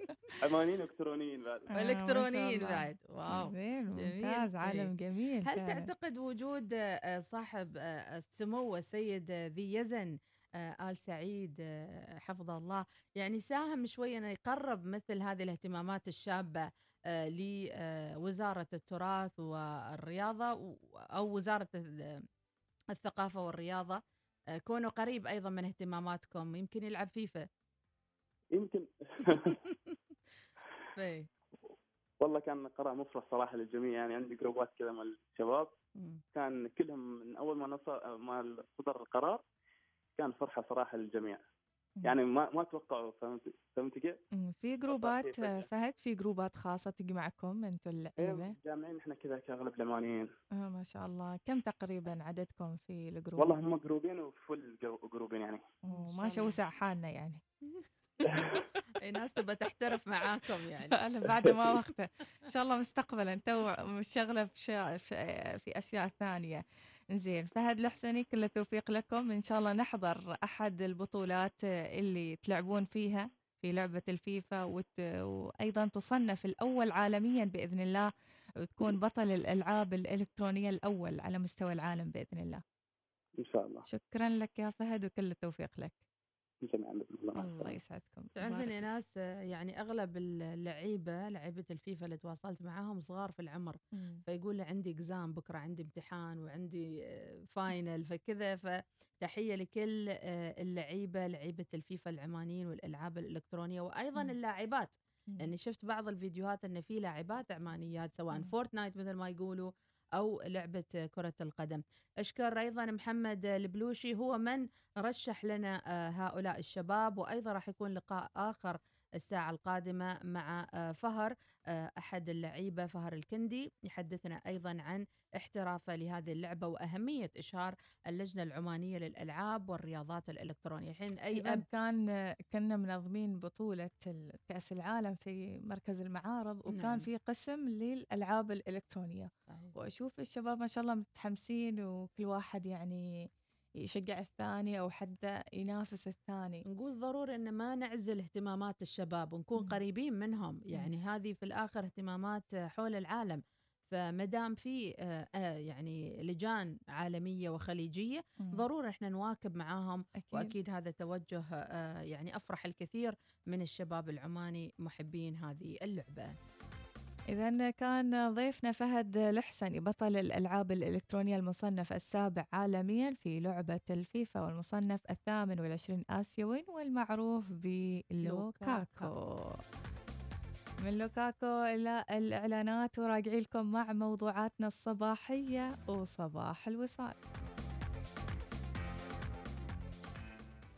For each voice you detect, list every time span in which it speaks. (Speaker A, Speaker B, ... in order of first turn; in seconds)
Speaker A: 0.4-1.7, 28.5-29.6, 32.2-35.7, 36.3-39.4, 40.2-41.4, 42.0-44.2, 44.9-45.6, 48.2-50.3, 53.4-55.6, 58.3-58.5, 83.4-83.8, 86.6-87.7
Speaker B: 1.7-5.9, 44.3-48.5, 50.6-53.6, 55.9-57.4, 60.8-78.1, 78.6-82.6, 83.9-86.0, 87.3-88.7, 94.0-94.2, 131.3-143.3, 143.8-146.6, 158.4-158.6, 160.2-160.5, 167.3-179.6, 180.8-187.1
Speaker C: 1.8-4.9, 5.5-11.6, 12.2-22.2, 22.9-24.0, 24.6-27.4, 30.9-31.3, 55.9-56.5, 59.0-61.0, 88.4-96.9, 97.5-131.6, 136.7-137.0, 146.7-166.3, 178.2-179.1